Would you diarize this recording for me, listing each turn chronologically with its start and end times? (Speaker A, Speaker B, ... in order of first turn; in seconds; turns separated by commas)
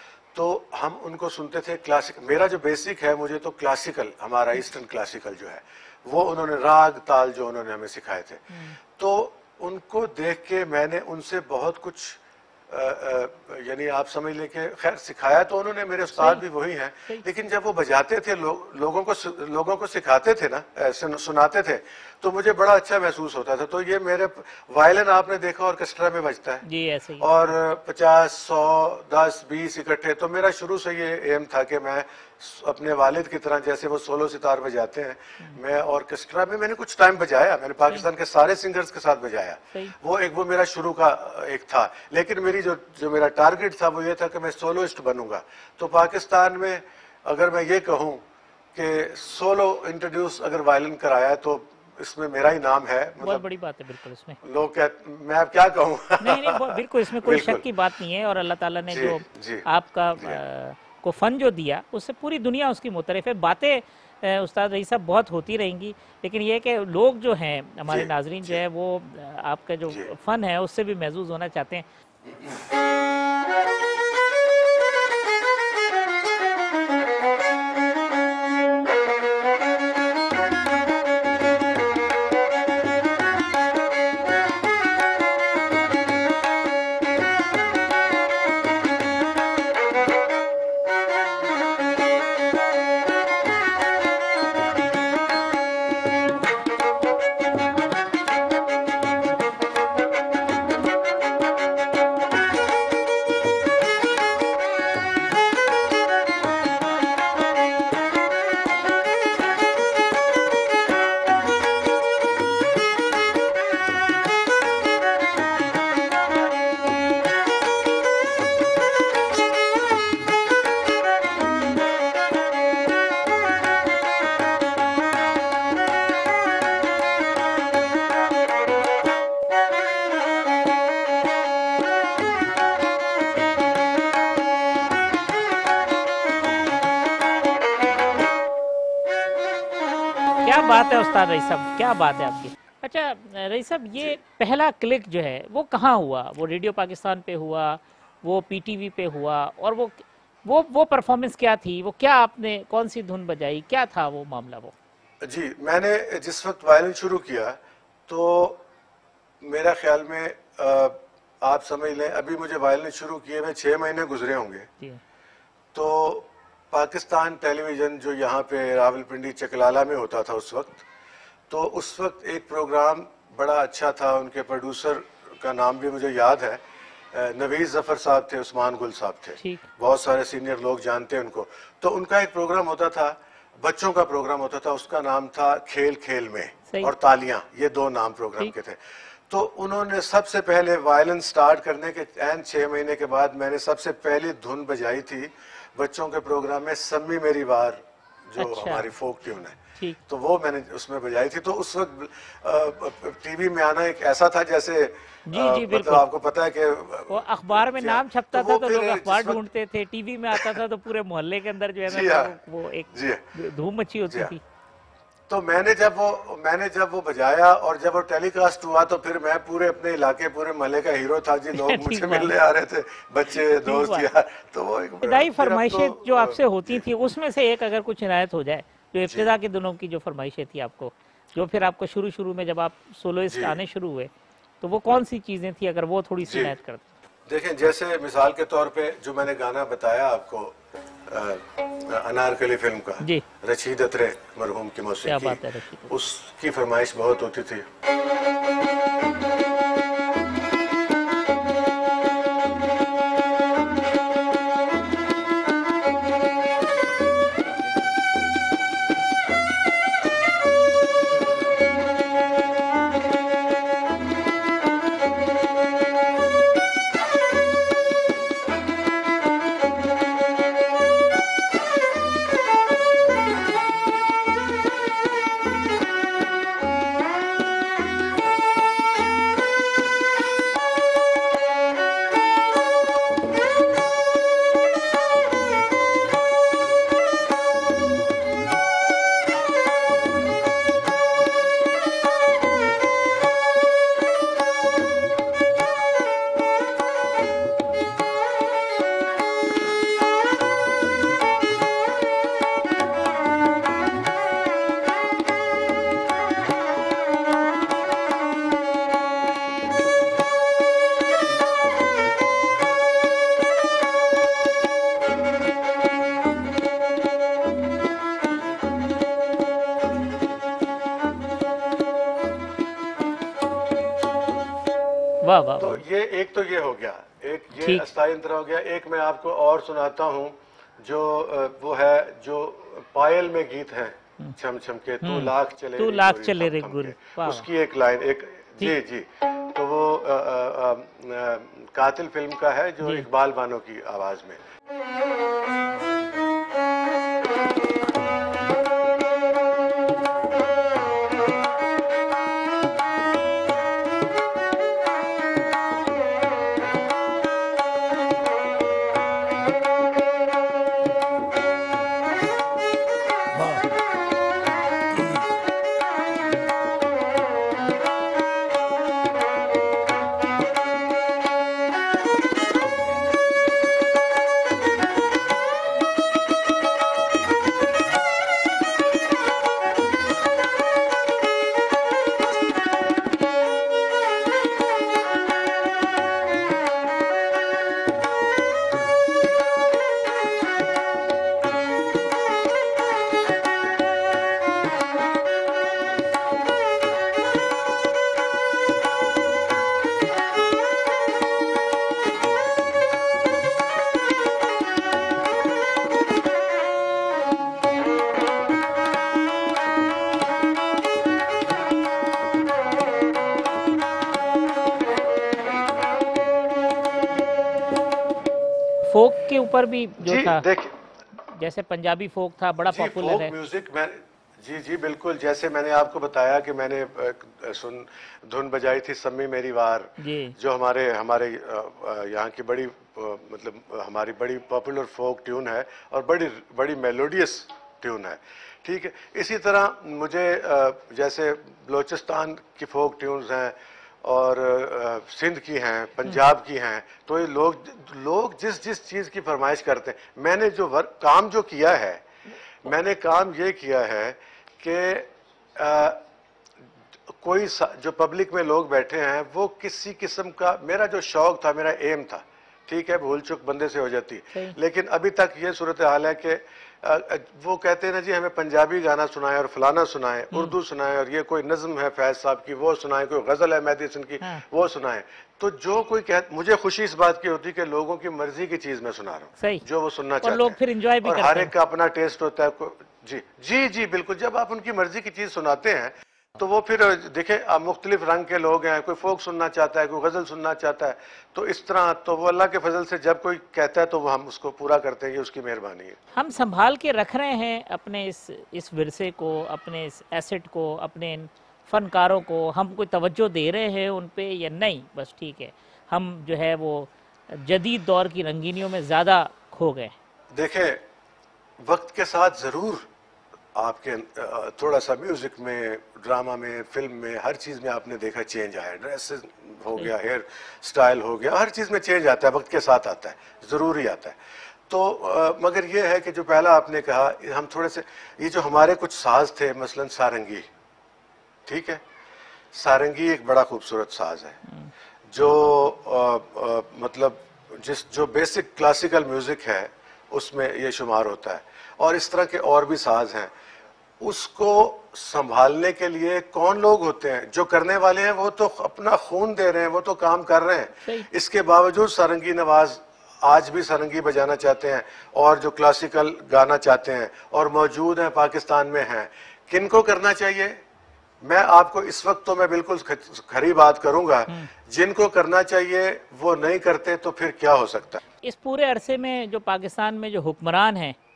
Speaker A: 0.3-26.6, Speaker B: 8.5-8.8, Speaker B: 16.2-16.4, Speaker B: 26.6-27.3, Speaker A: 27.2-53.5, Speaker B: 53.2-54.4, Speaker A: 54.4-57.7, Speaker B: 56.2-71.9, Speaker A: 58.9-59.6, Speaker A: 67.9-68.6, Speaker A: 69.9-70.1, Speaker B: 140.4-154.7, Speaker A: 155.2-158.6, Speaker A: 159.4-164.7, Speaker A: 165.7-170.9, Speaker A: 171.5-209.4, Speaker B: 179.4-179.7, Speaker B: 198.4-198.9, Speaker B: 205.3-206.1, Speaker B: 207.1-214.4, Speaker A: 210.3-210.6, Speaker A: 211.8-212.4, Speaker A: 212.9-213.3, Speaker A: 215.3-226.8, Speaker B: 221.5-222.3, Speaker B: 223.4-224.1, Speaker B: 225.0-237.0, Speaker A: 233.3-233.6, Speaker A: 236.2-236.6, Speaker A: 237.3-247.7, Speaker B: 243.0-243.2, Speaker B: 245.1-245.9, Speaker B: 325.2-325.8, Speaker A: 325.6-344.4, Speaker B: 327.5-327.9, Speaker B: 335.0-337.5, Speaker B: 418.9-420.5, Speaker A: 420.0-420.8, Speaker B: 421.3-423.3, Speaker A: 422.7-452.1, Speaker B: 430.0-430.4, Speaker A: 452.6-456.0, Speaker A: 457.1-496.0, Speaker B: 479.4-479.6, Speaker B: 480.2-481.5, Speaker B: 496.1-509.9, Speaker A: 510.3-510.8, Speaker A: 511.6-512.9, Speaker A: 513.5-530.5, Speaker A: 531.5-531.8, Speaker A: 532.5-534.4, Speaker A: 535.1-543.3, Speaker A: 544.0-560.6, Speaker B: 550.8-551.1, Speaker A: 561.2-568.0, Speaker B: 568.2-571.0